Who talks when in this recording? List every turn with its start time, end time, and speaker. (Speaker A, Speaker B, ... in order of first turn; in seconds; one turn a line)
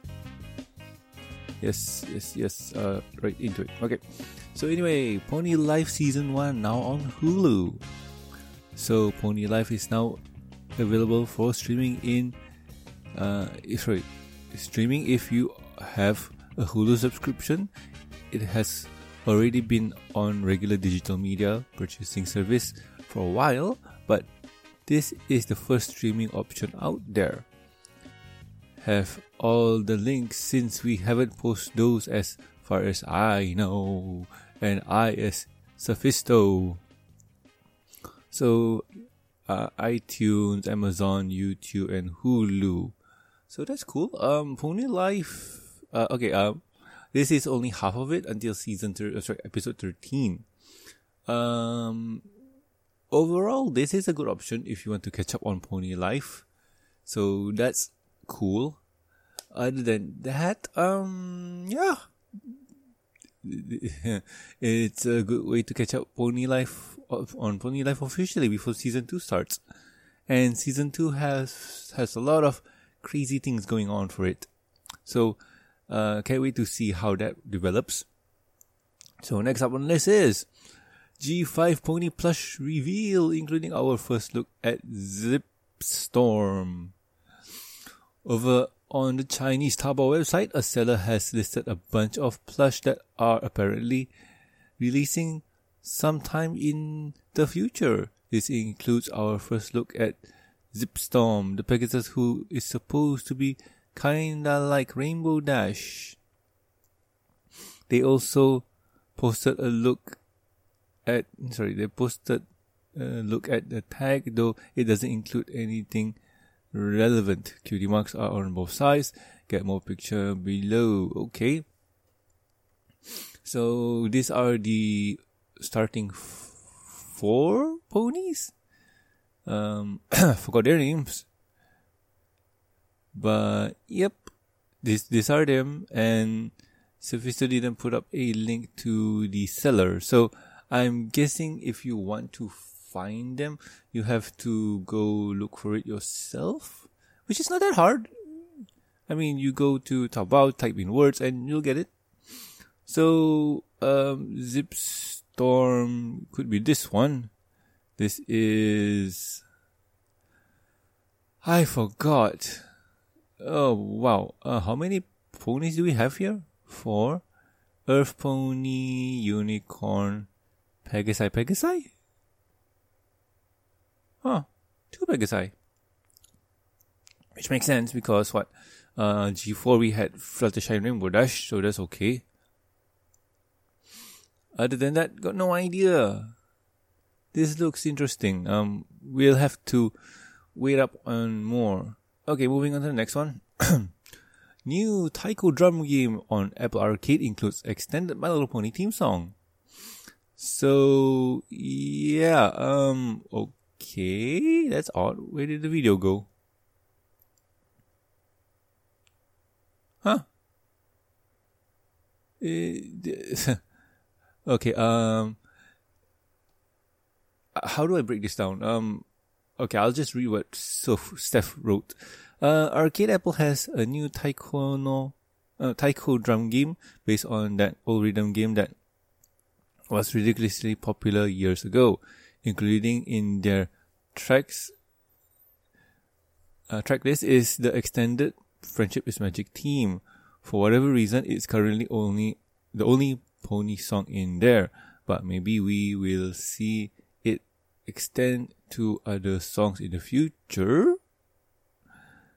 Speaker A: 1.6-7.8
Speaker A: 8.7-10.2
Speaker A: 10.8-12.3
Speaker A: 13.1-17.7
Speaker A: 18.3-24.3
Speaker A: 24.9-27.5
Speaker A: 28.8-36.8
Speaker A: 38.3-38.9
Speaker A: 39.5-42.9
Speaker A: 43.5-50.5
Speaker A: 51.2-52.2
Speaker A: 53.1-56.5
Speaker A: 57.0-58.8
Speaker A: 59.5-62.0
Speaker A: 63.4-69.6
Speaker A: 70.3-74.5
Speaker A: 75.0-78.1
Speaker A: 79.2-80.5
Speaker A: 81.2-86.9
Speaker A: 88.2-94.1
Speaker A: 94.8-106.2
Speaker A: 107.9-110.2
Speaker A: 111.0-112.4
Speaker A: 112.9-116.2
Speaker A: 116.7-121.7
Speaker A: 123.4-128.5
Speaker A: 129.4-131.3
Speaker A: 133.1-148.1
Speaker A: 149.1-151.9
Speaker A: 152.8-157.3
Speaker A: 158.0-159.4
Speaker A: 161.4-162.6
Speaker A: 163.4-167.2
Speaker A: 167.8-170.3
Speaker A: 170.8-171.9
Speaker A: 174.2-175.5
Speaker A: 177.3-182.2
Speaker A: 184.5-186.3
Speaker A: 187.3-189.9
Speaker A: 190.5-193.9
Speaker A: 194.7-199.3
Speaker A: 200.4-206.3
Speaker A: 212.4-213.6
Speaker A: 214.4-215.4
Speaker A: 217.5-219.1
Speaker A: 219.6-228.8
Speaker A: 229.9-234.7
Speaker A: 236.7-251.0